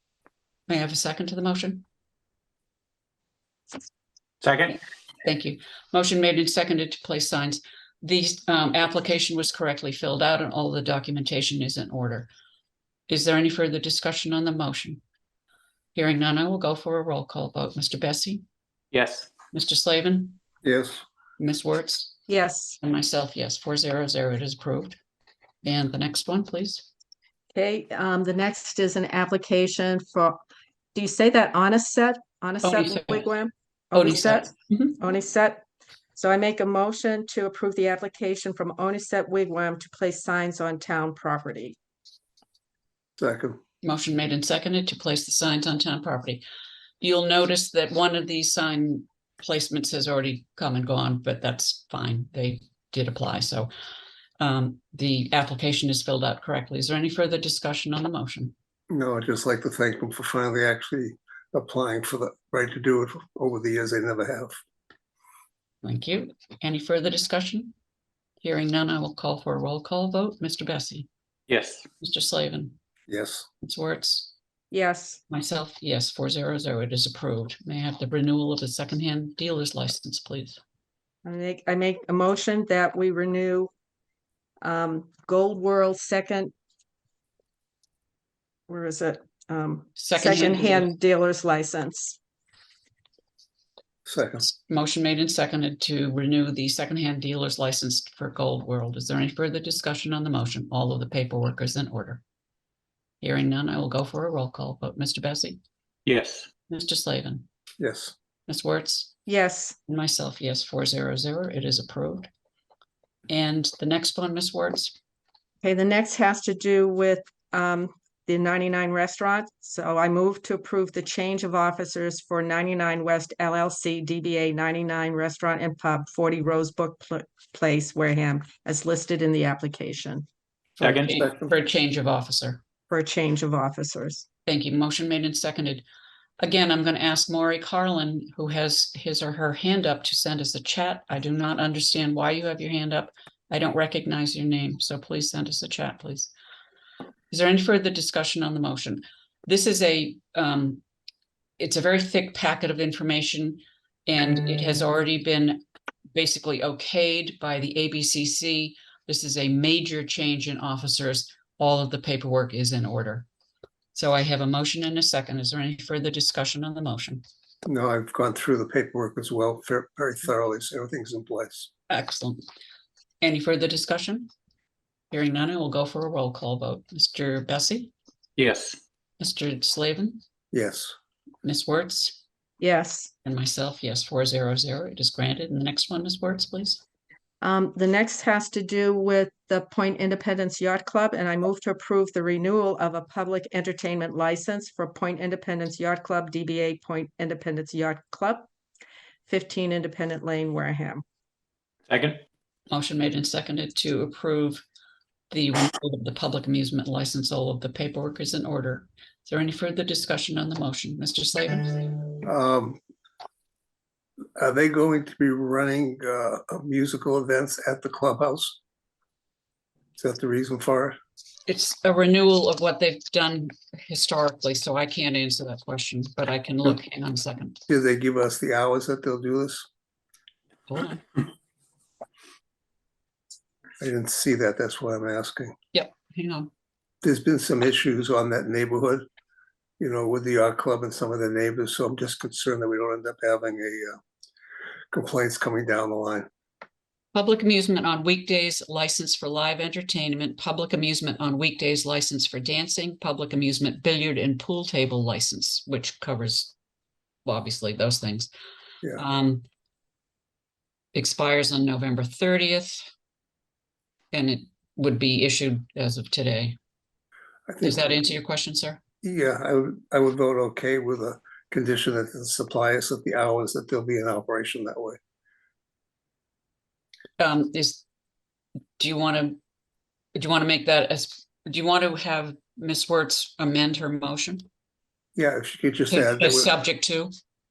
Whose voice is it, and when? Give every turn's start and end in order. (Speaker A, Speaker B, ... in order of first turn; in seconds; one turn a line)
Speaker A: 0.7-1.8
Speaker B: 4.4-4.8
Speaker A: 5.2-12.3
Speaker A: 13.1-15.0
Speaker A: 15.9-18.4
Speaker B: 18.9-19.3
Speaker A: 19.5-20.4
Speaker C: 20.6-21.0
Speaker A: 21.4-22.2
Speaker D: 22.3-22.8
Speaker A: 22.8-25.0
Speaker A: 25.6-26.9
Speaker D: 27.5-30.4
Speaker D: 30.9-35.6
Speaker A: 32.6-33.3
Speaker A: 33.9-35.0
Speaker D: 36.1-41.8
Speaker C: 43.2-43.6
Speaker A: 43.8-46.4
Speaker A: 47.0-53.7
Speaker A: 54.4-58.5
Speaker C: 58.9-64.6
Speaker A: 65.8-67.7
Speaker A: 68.4-71.1
Speaker B: 71.5-71.9
Speaker A: 72.0-72.8
Speaker C: 73.1-73.5
Speaker A: 73.6-74.3
Speaker D: 74.7-75.2
Speaker A: 75.3-80.6
Speaker D: 81.2-83.7
Speaker D: 84.6-86.5
Speaker D: 88.7-92.2
Speaker A: 90.0-90.9
Speaker C: 94.1-94.5
Speaker A: 94.5-102.2
Speaker A: 103.2-105.6
Speaker B: 106.1-106.5
Speaker A: 106.7-107.5
Speaker C: 107.8-108.1
Speaker A: 108.5-109.1
Speaker D: 109.3-109.8
Speaker A: 109.9-112.3
Speaker A: 113.3-115.0
Speaker D: 115.6-130.3
Speaker A: 130.8-132.6
Speaker B: 130.8-131.2
Speaker D: 132.9-134.3
Speaker A: 134.5-135.8
Speaker A: 136.4-146.3
Speaker A: 147.3-150.8
Speaker A: 151.6-155.6
Speaker A: 156.1-163.3
Speaker A: 163.9-167.2
Speaker C: 167.7-171.7
Speaker A: 171.9-172.4
Speaker A: 173.2-174.3
Speaker A: 175.1-177.9
Speaker B: 178.4-178.8
Speaker A: 179.2-180.2
Speaker C: 180.5-180.9
Speaker A: 181.4-182.2
Speaker D: 182.6-183.1
Speaker A: 183.2-186.8
Speaker D: 187.4-198.5
Speaker D: 199.3-201.0
Speaker B: 201.9-202.2
Speaker A: 202.7-204.6
Speaker A: 205.3-212.1
Speaker C: 212.2-212.8
Speaker C: 214.4-218.6
Speaker C: 220.0-221.0
Speaker A: 221.5-227.6
Speaker C: 227.7-229.7
Speaker A: 230.7-231.0
Speaker C: 233.8-235.5
Speaker A: 235.7-236.5
Speaker C: 237.0-239.1
Speaker C: 239.8-244.0
Speaker C: 244.9-246.3
Speaker A: 247.1-256.5
Speaker A: 257.2-258.3
Speaker A: 258.9-259.4
Speaker A: 260.9-262.9
Speaker A: 264.1-266.6
Speaker C: 267.5-268.0
Speaker A: 267.6-268.8
Speaker C: 269.0-275.0
Speaker A: 277.2-277.8
Speaker A: 278.8-279.4
Speaker A: 280.1-284.4
Speaker C: 285.2-286.5
Speaker A: 285.9-287.1